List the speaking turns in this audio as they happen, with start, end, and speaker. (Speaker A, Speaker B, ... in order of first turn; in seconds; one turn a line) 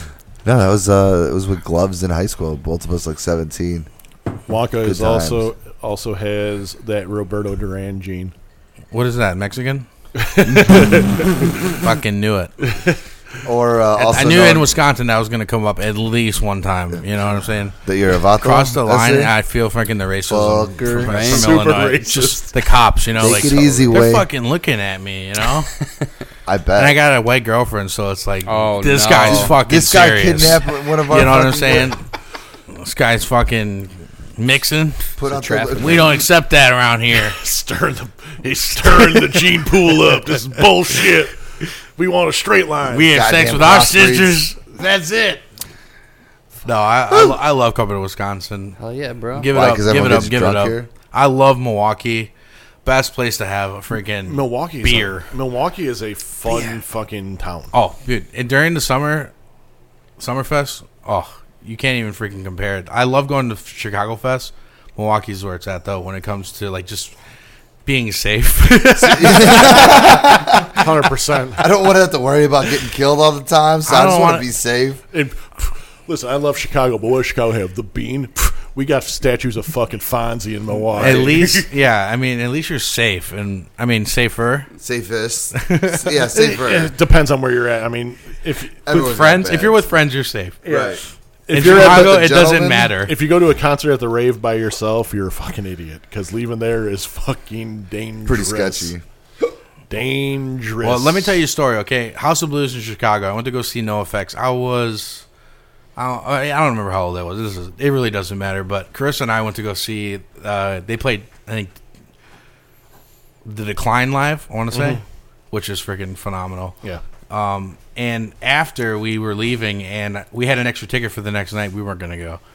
Speaker A: 0.4-3.9
Speaker B: 4.5-8.3
Speaker A: 4.8-5.5
Speaker C: 8.9-9.8
Speaker B: 10.2-11.3
Speaker C: 10.5-12.5
Speaker B: 12.7-13.0
Speaker A: 13.4-14.8
Speaker C: 13.9-17.8
Speaker A: 17.8-19.3
Speaker C: 18.4-25.7
Speaker A: 20.3-21.5
Speaker D: 21.0-21.4
Speaker B: 21.2-22.5
Speaker A: 23.2-24.3
Speaker A: 26.4-27.0
Speaker C: 26.8-32.0
Speaker D: 28.4-29.5
Speaker A: 29.2-31.9
Speaker C: 32.7-35.0
Speaker A: 35.2-36.2
Speaker D: 35.3-36.1
Speaker C: 35.8-37.4
Speaker B: 37.1-43.2
Speaker C: 42.9-45.4
Speaker A: 43.1-44.5
Speaker C: 46.6-48.8
Speaker D: 48.8-49.5
Speaker C: 49.3-52.3
Speaker A: 49.5-50.9
Speaker C: 52.8-55.3
Speaker B: 54.2-57.7
Speaker C: 57.7-59.3
Speaker C: 60.2-67.1
Speaker C: 67.8-70.7
Speaker A: 69.0-70.8
Speaker B: 70.7-71.6
Speaker A: 71.6-75.0
Speaker C: 73.8-74.5
Speaker B: 75.1-81.7
Speaker A: 80.9-81.3
Speaker C: 81.0-84.7
Speaker A: 84.8-86.9
Speaker C: 85.5-86.1
Speaker B: 86.3-88.8
Speaker A: 88.8-89.8
Speaker C: 88.9-90.6
Speaker B: 90.6-92.3
Speaker A: 90.6-91.0
Speaker C: 91.5-93.1
Speaker A: 91.6-92.9
Speaker B: 93.0-98.9
Speaker A: 98.2-99.0
Speaker B: 99.9-101.3
Speaker C: 100.8-105.2
Speaker C: 106.0-111.8
Speaker C: 113.4-116.8
Speaker B: 114.7-115.0
Speaker C: 117.3-122.4